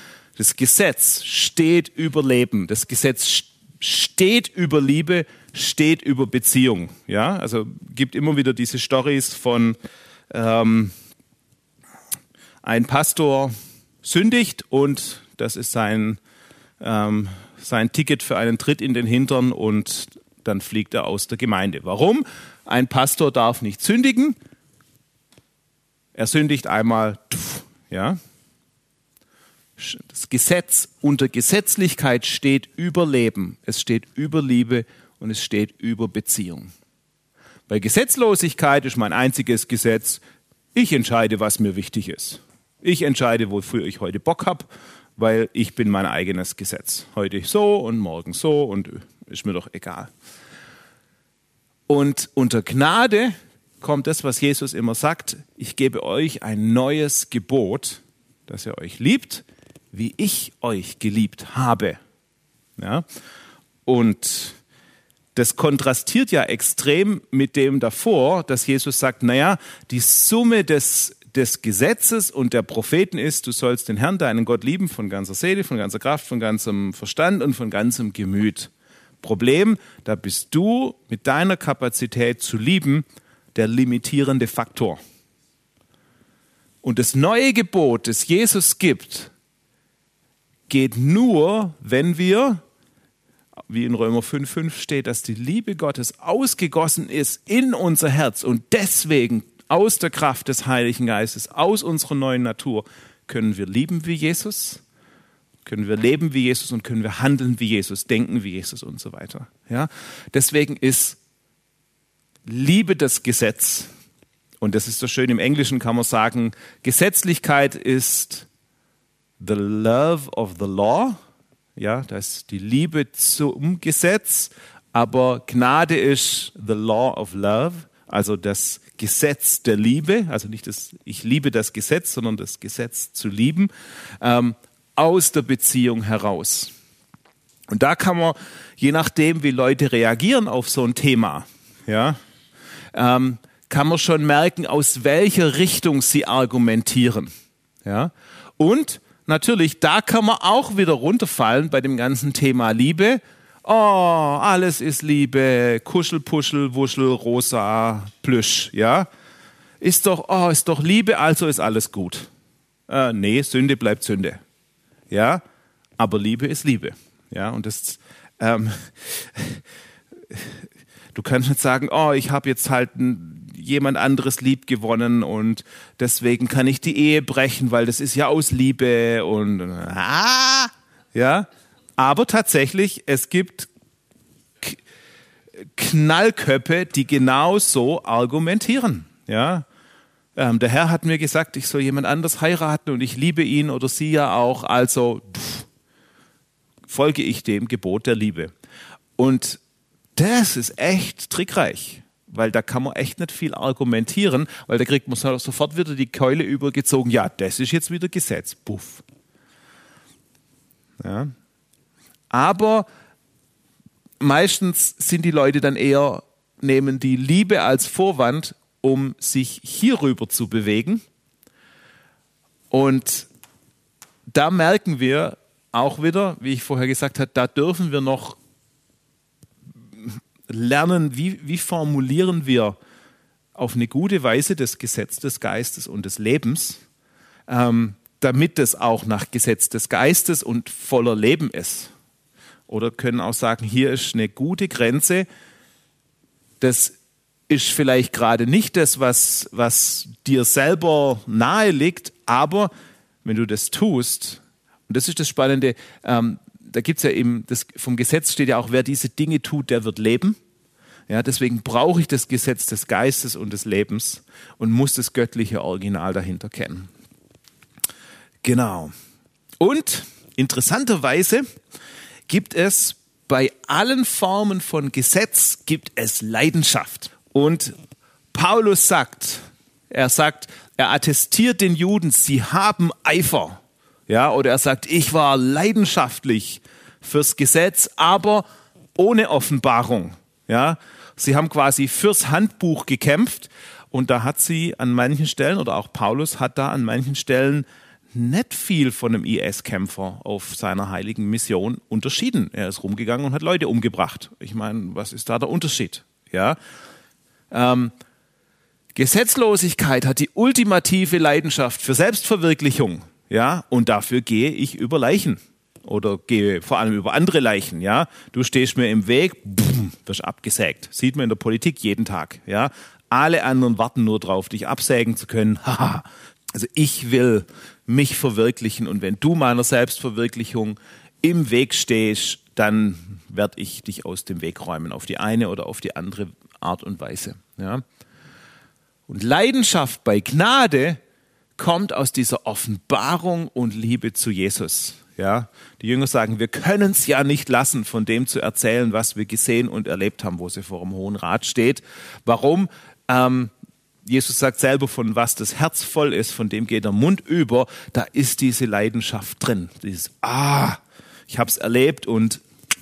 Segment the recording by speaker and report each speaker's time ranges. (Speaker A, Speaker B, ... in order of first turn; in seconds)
Speaker A: 0.4-9.8, 10.3-10.9, 12.6-16.2, 16.8-24.4, 26.1-28.2, 29.8-36.7, 37.7-40.2, 40.7-50.1, 51.9-62.0, 62.8-63.0, 63.9-64.6, 65.3-78.7, 79.2-85.0, 86.8-89.3, 90.7-92.6, 93.7-104.8, 105.7-111.2, 112.5-113.9, 114.6-118.5, 119.4-121.2, 121.8-133.7, 134.2-136.7, 137.7-142.2, 142.9-147.3, 147.8-159.1, 159.8-162.3, 162.9-164.4, 165.1-165.4, 166.0-169.6, 170.3-170.6, 171.1-183.7, 185.6-189.7, 190.3-195.7, 196.9-198.5, 199.2-199.6, 200.2-209.0, 211.0-211.3, 212.3-212.8, 214.2-221.0, 222.7-223.3, 224.3-228.4, 230.0-232.8, 233.6-236.8, 237.5-241.9, 242.7-245.2, 246.6-246.9, 247.5-252.7, 253.2-260.4, 261.1-266.9, 268.4-268.9, 269.6-271.4, 272.3-277.8, 278.3-288.4, 288.9-306.6, 307.5-307.9, 308.9-337.8, 339.1-341.0, 341.6-353.5, 354.0-362.4